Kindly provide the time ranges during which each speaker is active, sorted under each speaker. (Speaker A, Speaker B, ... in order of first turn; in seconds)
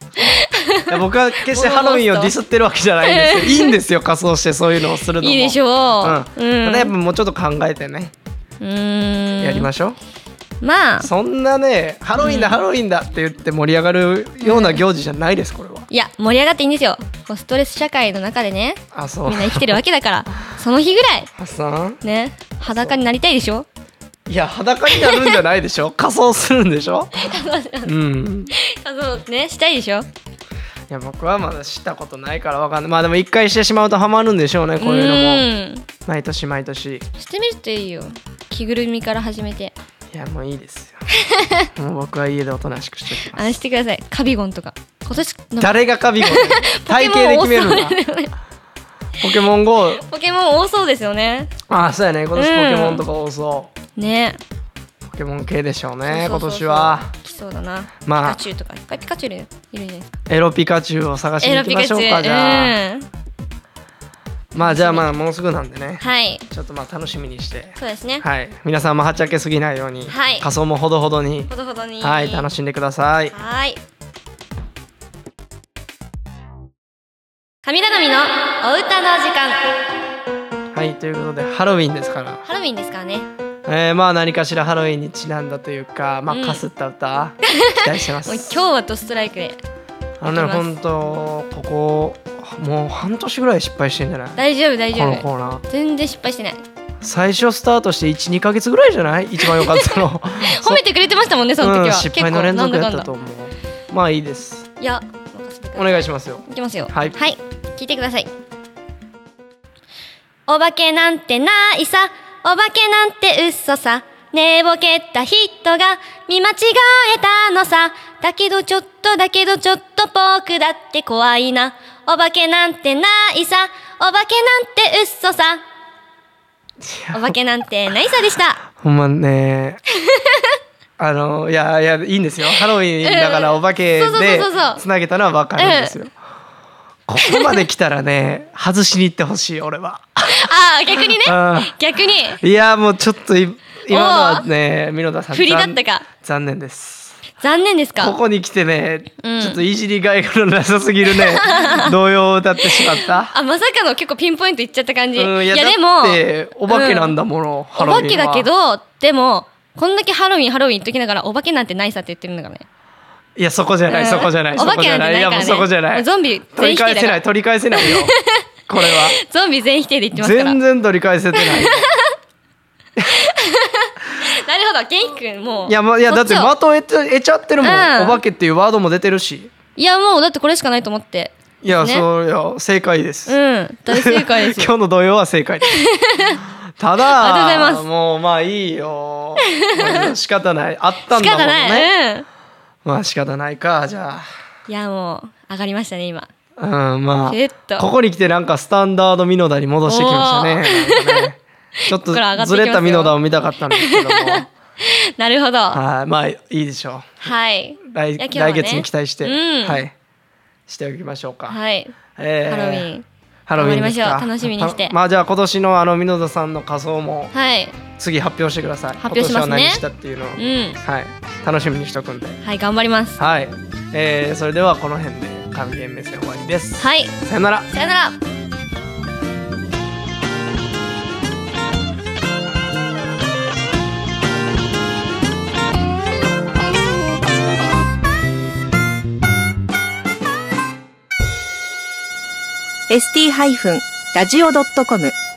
Speaker A: 0.2-0.9, 1.4-2.3, 3.0-3.8, 5.2-6.9, 8.6-9.7, 10.6-11.1, 12.2-12.6, 14.4-14.8, 15.9-21.3, 22.0-23.6, 24.9-25.4, 27.2-27.9, 28.5-30.1, 34.8-35.9, 37.2-39.7, 41.3-41.6, 43.2-48.3, 49.9-51.5, 52.3-53.0, 54.0-54.4, 56.0-60.2, 61.4-63.1, 64.6-65.1, 66.0-66.5, 67.8-68.2, 70.1-70.5, 71.5-72.5, 73.3-73.8, 77.6-79.6, 82.4-83.3, 86.3-86.6, 87.5-89.6, 90.3-90.8, 94.4-96.6, 99.4-103.1, 104.8-108.3, 110.5-125.6, 127.1-128.6, 130.1-130.6, 133.0-134.8, 135.6-135.9, 137.3-137.6, 140.3-142.4, 143.9-144.5, 145.3-146.1, 147.4-148.2, 149.2-149.6, 151.1-151.9, 152.6-157.2, 157.8-162.6, 163.9-167.2, 167.8-170.6, 171.3-172.1, 173.1-176.5, 177.6-178.2, 179.8-182.1, 183.3-184.7, 185.7-186.4, 187.1-187.8, 189.4-190.1, 191.1-192.2, 194.7-196.3, 197.2-197.9, 199.8-201.3, 201.9-203.1, 203.7-205.8, 207.2-209.8, 211.5-211.9, 212.5-214.9, 217.3-217.8, 219.0-219.8, 220.4-220.8, 222.4-223.2, 226.8-227.1, 227.7-228.2
Speaker B: 0.9-8.1, 9.4-10.0, 11.0-15.9, 18.9-19.8, 21.4-22.0, 22.7-23.0, 24.3-27.3, 27.8-28.5, 30.9-35.5, 36.0-37.1, 40.1-41.0, 41.8-43.5, 45.6-48.0, 49.2-50.0, 51.7-53.7, 55.1-57.1, 58.0-58.4, 60.3-62.8, 64.5-73.3, 80.7-82.4, 83.7-88.6, 90.2-94.4, 94.9-95.6, 97.0-100.8, 101.6-104.7, 105.7-107.2, 126.8-127.3, 128.8-129.8, 131.0-136.1, 137.1-141.8, 142.4-147.2, 148.0-153.3, 155.2-158.5, 163.4-168.1, 168.7-169.2, 170.1-171.8, 175.6-179.5, 181.6-183.4, 183.9-185.8, 186.3-191.9, 192.8-194.3, 196.6-204.5, 205.7-207.3, 207.8-209.9, 210.7-211.6, 212.2-212.9, 213.5-217.3, 218.0-222.4, 223.2-227.7
Speaker C: 242.9-245.2